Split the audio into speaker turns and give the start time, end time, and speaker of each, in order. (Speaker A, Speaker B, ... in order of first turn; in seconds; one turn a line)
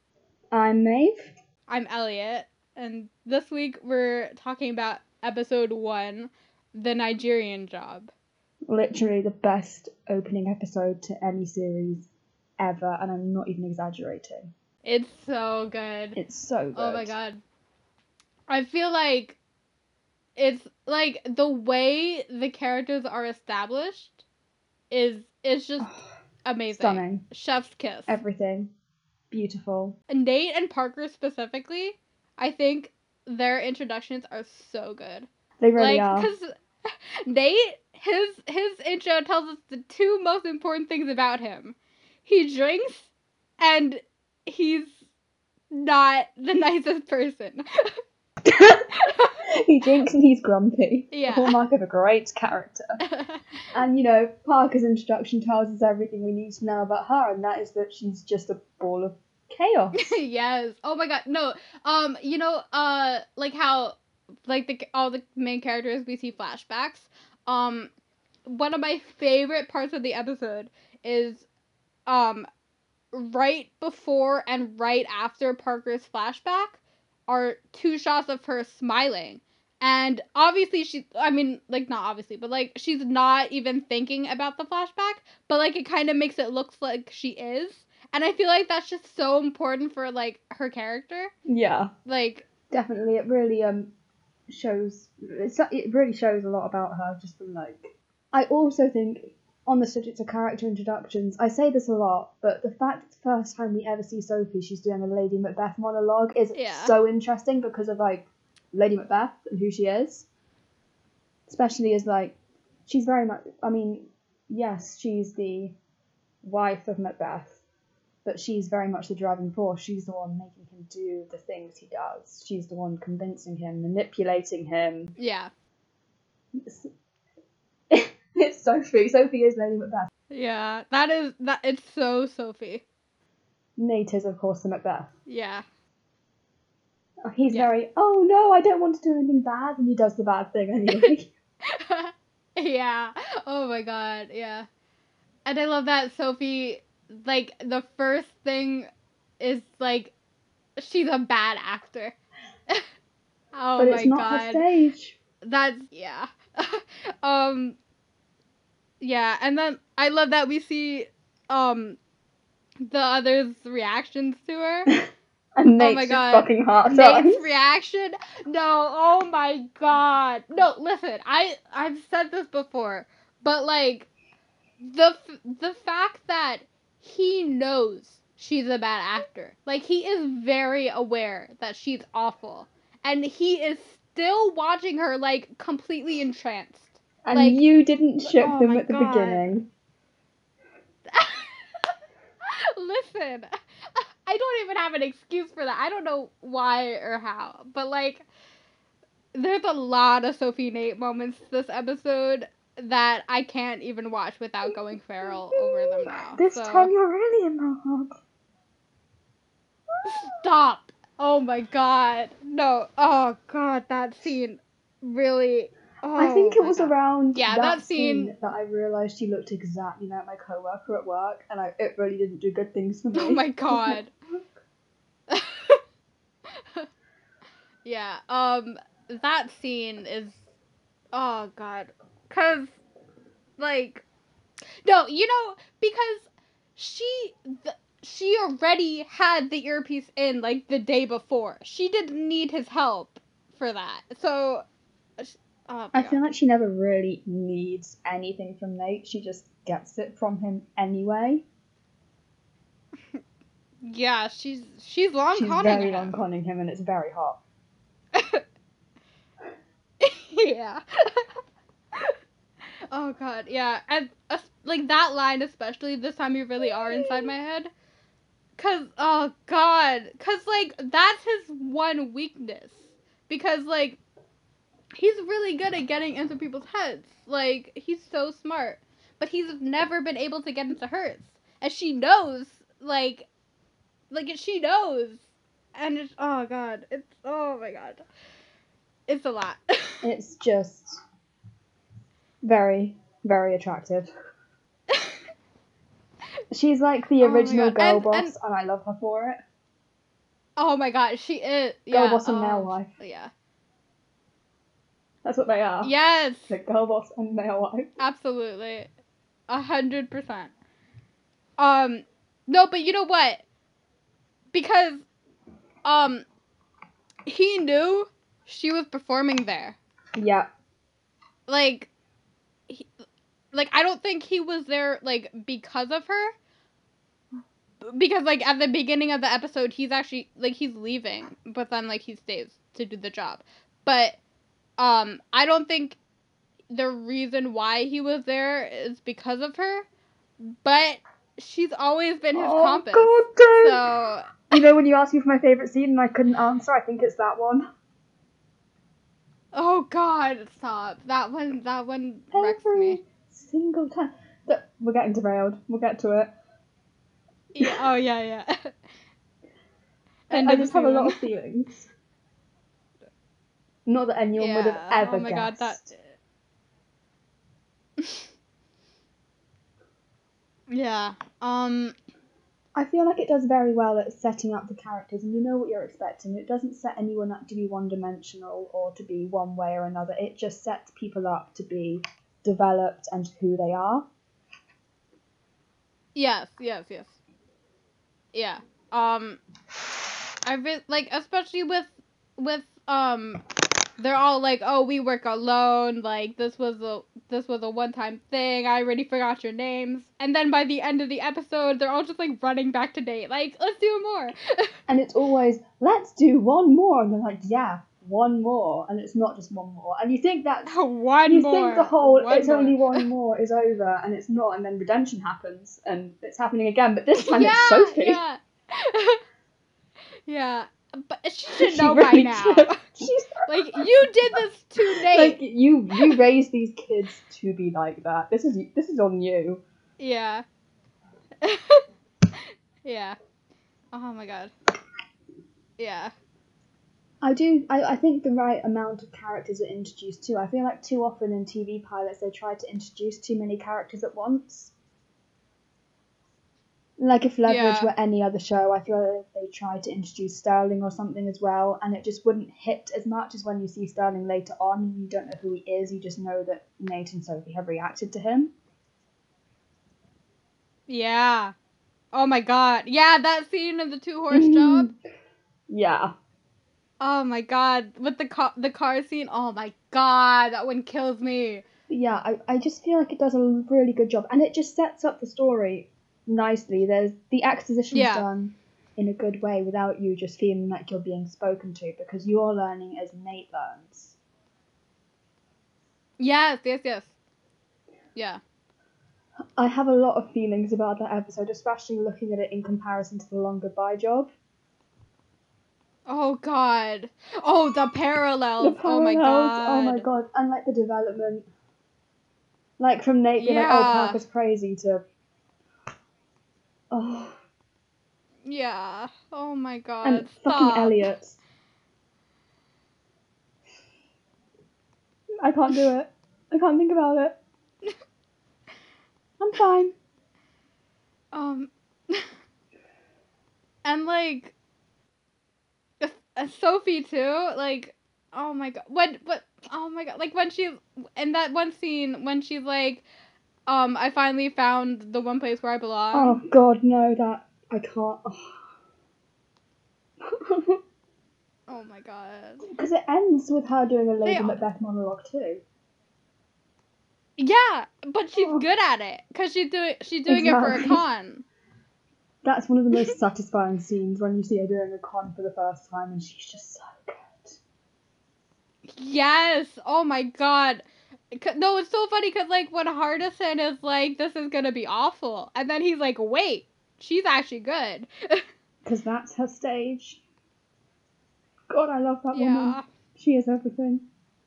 Speaker A: 0.5-1.3
Speaker B: 1.7-8.1
Speaker A: 8.7-14.5
Speaker B: 14.8-16.2
Speaker A: 16.1-17.1
Speaker B: 16.7-17.4
Speaker B: 18.5-19.4
Speaker B: 20.4-24.2
Speaker B: 24.9-25.9
Speaker B: 26.4-28.2
Speaker A: 26.7-27.2
Speaker A: 28.1-28.7
Speaker A: 29.3-29.9
Speaker B: 30.1-45.0
Speaker A: 35.6-36.3
Speaker B: 45.7-48.0
Speaker A: 48.4-53.0
Speaker B: 48.9-49.4
Speaker B: 51.1-51.6
Speaker B: 53.0-53.4
Speaker A: 53.7-60.2
Speaker B: 60.0-67.9
Speaker B: 68.5-71.5
Speaker B: 72.1-72.5
Speaker B: 73.1-91.3
Speaker A: 91.5-91.9
Speaker B: 92.0-92.5
Speaker A: 92.7-93.9
Speaker A: 94.5-110.2
Speaker B: 106.5-107.0
Speaker A: 111.5-112.3
Speaker A: 112.9-115.8
Speaker A: 116.4-117.6
Speaker A: 118.2-125.1
Speaker B: 125.2-125.5
Speaker A: 126.5-126.9
Speaker A: 127.9-130.1
Speaker B: 130.3-132.8
Speaker A: 133.8-135.1
Speaker B: 135.3-135.6
Speaker A: 137.2-141.3
Speaker B: 141.6-144.7
Speaker B: 145.4-148.9
Speaker B: 149.4-150.1
Speaker B: 150.8-152.2
Speaker B: 153.5-154.6
Speaker A: 153.8-155.2
Speaker B: 155.4-157.8
Speaker B: 159.0-162.0
Speaker B: 162.8-164.9
Speaker A: 165.6-167.5
Speaker B: 165.8-174.1
Speaker B: 174.8-187.6
Speaker A: 187.2-189.7
Speaker B: 188.3-189.5
Speaker B: 191.1-198.2
Speaker B: 199.3-206.9
Speaker A: 205.5-208.2
Speaker B: 210.0-218.3
Speaker A: 216.2-224.0
Speaker B: 223.1-224.1
Speaker B: 225.3-225.8
Speaker B: 226.6-226.9
Speaker B: 227.8-230.4
Speaker B: 231.1-232.8
Speaker B: 233.6-234.0
Speaker B: 234.8-236.2
Speaker B: 236.8-244.6
Speaker B: 245.2-246.2
Speaker A: 245.9-251.4
Speaker B: 253.8-256.2
Speaker A: 255.3-257.4
Speaker B: 258.1-258.4
Speaker B: 260.0-261.3
Speaker B: 262.9-267.7
Speaker A: 267.0-267.3
Speaker B: 268.6-274.0
Speaker B: 274.9-283.3
Speaker B: 284.1-285.2
Speaker B: 285.8-288.0
Speaker B: 289.1-290.0
Speaker A: 290.0-291.0
Speaker A: 292.4-294.1
Speaker B: 294.9-295.2
Speaker A: 296.5-299.4
Speaker B: 297.2-298.3
Speaker B: 300.6-303.3
Speaker A: 301.9-302.9
Speaker A: 305.2-305.9
Speaker B: 305.8-306.5
Speaker A: 306.5-307.9
Speaker B: 308.0-308.9
Speaker B: 309.5-310.5
Speaker B: 311.6-313.4
Speaker B: 314.5-315.0
Speaker B: 315.8-316.2
Speaker B: 317.2-319.8
Speaker A: 320.1-320.5
Speaker B: 321.5-321.9
Speaker B: 323.5-326.3
Speaker B: 327.8-334.2
Speaker B: 334.8-336.0
Speaker B: 336.7-339.9
Speaker B: 340.4-344.5
Speaker A: 342.3-343.8
Speaker A: 344.5-347.7
Speaker B: 349.5-353.0
Speaker A: 352.3-356.3
Speaker B: 357.5-358.8
Speaker B: 360.3-361.3
Speaker A: 360.3-361.9
Speaker A: 363.9-365.9
Speaker B: 364.4-366.1
Speaker B: 368.0-368.2
Speaker B: 370.7-371.9
Speaker A: 372.7-384.1
Speaker B: 386.1-387.2
Speaker B: 388.3-389.4
Speaker B: 390.4-393.4
Speaker B: 394.0-404.7
Speaker A: 404.9-418.2
Speaker B: 410.7-413.1
Speaker B: 417.2-419.2
Speaker B: 420.3-422.8
Speaker A: 421.5-424.1
Speaker B: 423.4-425.4
Speaker A: 424.8-429.6
Speaker B: 430.0-430.4
Speaker B: 431.4-431.8
Speaker B: 432.4-433.2
Speaker B: 433.9-434.5
Speaker B: 435.8-436.1
Speaker A: 437.2-444.7
Speaker A: 447.0-458.5
Speaker B: 447.5-447.9
Speaker B: 460.9-461.5
Speaker B: 462.1-464.9
Speaker A: 464.3-464.9
Speaker A: 465.7-466.1
Speaker B: 467.0-471.6
Speaker A: 471.9-484.1
Speaker B: 477.9-478.3
Speaker B: 486.2-487.1
Speaker B: 488.1-488.4
Speaker A: 489.6-494.3
Speaker B: 496.1-500.0
Speaker A: 498.6-501.5
Speaker A: 502.8-505.0
Speaker B: 503.4-504.2
Speaker A: 506.9-507.4
Speaker B: 508.4-511.1
Speaker A: 510.0-511.4
Speaker A: 515.4-517.4
Speaker A: 519.4-519.9
Speaker B: 521.3-522.3
Speaker B: 523.8-524.5
Speaker B: 526.0-533.0
Speaker B: 533.7-536.4
Speaker A: 536.1-538.6
Speaker A: 540.2-540.8
Speaker B: 541.7-542.7
Speaker A: 542.6-545.6
Speaker B: 544.2-544.6
Speaker B: 547.4-551.4
Speaker A: 548.4-548.6
Speaker A: 550.3-551.0
Speaker A: 552.4-557.6
Speaker B: 558.9-568.4
Speaker A: 568.8-570.2
Speaker A: 571.7-574.0
Speaker B: 572.3-572.8